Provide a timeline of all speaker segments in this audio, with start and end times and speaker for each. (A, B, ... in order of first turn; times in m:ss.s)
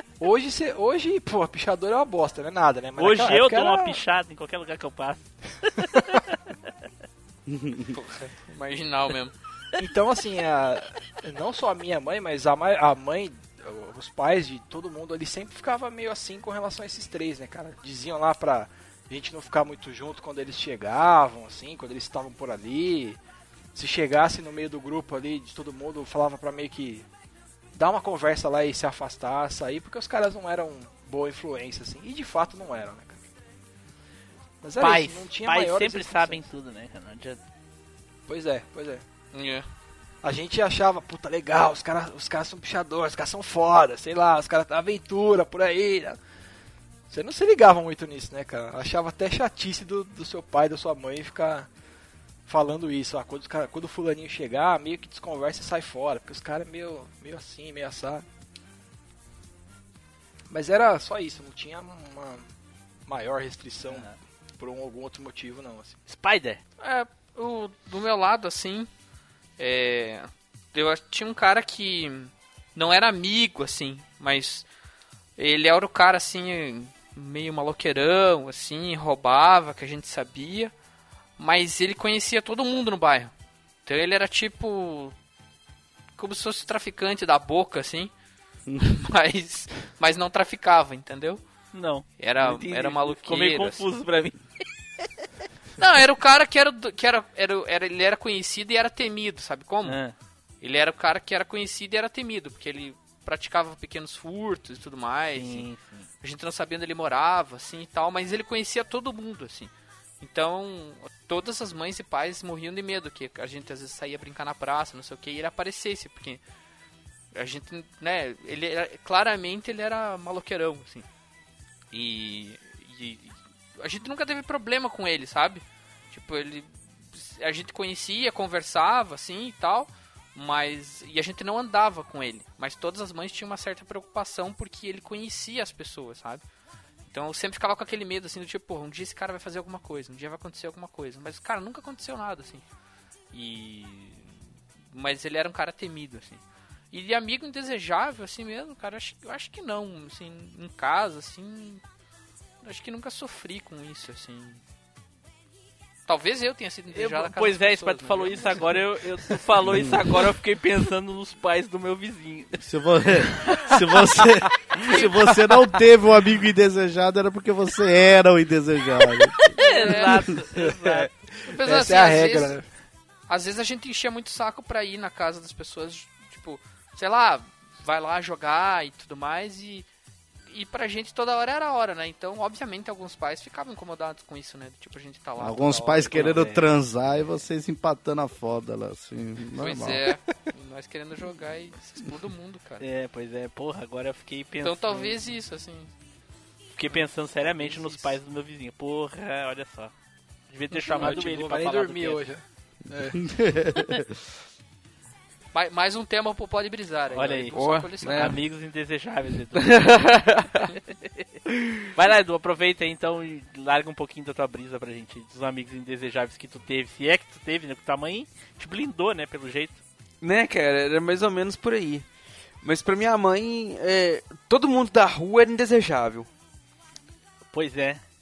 0:00.2-0:04.0 A
0:03.0-0:06.4 B
0:07.5-0:07.9 C
0:07.9-0:09.4 D
0:09.8-0:23.2 A
0:23.7-0:27.1 A
0:27.8-0:33.2 A
0:34.6-0:36.4 A
0:34.8-0:37.4 B
0:38.3-0:39.0 A
0:39.3-0:39.7 D
0:40.2-0:46.2 A
0:47.1-0:51.7 A
0:52.5-0:58.2 A
1:00.5-1:02.5 A
1:03.1-1:06.0 A
1:06.1-1:06.6 B
1:06.8-1:08.9 D
1:09.6-1:14.7 D
1:15.4-1:20.7 D
1:21.4-1:23.3 D
1:23.8-1:25.2 D
1:26.2-1:28.1 D
1:28.8-1:31.4 D
1:31.7-1:34.4 B
1:32.2-1:33.9 D
1:35.8-1:40.0 D
1:39.8-1:40.1 B
1:40.6-1:45.7 D
1:45.3-1:46.0 B
1:46.2-1:56.4 D
1:57.3-2:01.1 D
2:01.9-2:16.4 D
2:17.1-2:22.6 D
2:23.3-2:24.4 D
2:24.9-2:31.8 D
2:32.6-2:34.6 D
2:36.1-2:38.8 D
2:36.9-2:42.6 B
2:39.7-2:40.0 C
2:42.6-2:49.5 C
2:44.8-2:45.1 D
2:49.5-2:51.1 B
2:49.6-2:50.4 D
2:50.6-2:52.7 A
2:51.5-2:52.6 D
2:53.3-2:59.9 D
3:00.5-3:06.7 D
3:05.4-3:10.0 C
3:09.6-3:12.9 D
3:12.8-3:15.2 B
3:14.6-3:15.9 D
3:16.8-3:19.9 B
3:17.4-3:18.2 D
3:20.5-3:22.2 B
3:20.9-3:23.2 A
3:23.2-3:24.2 C
3:25.5-3:28.4 D
3:27.1-3:29.8 B
3:27.6-3:28.4 E
3:29.6-3:30.7 E
3:32.0-3:39.8 B
3:40.2-3:42.1 E
3:42.6-3:46.3 E
3:47.5-3:48.0 B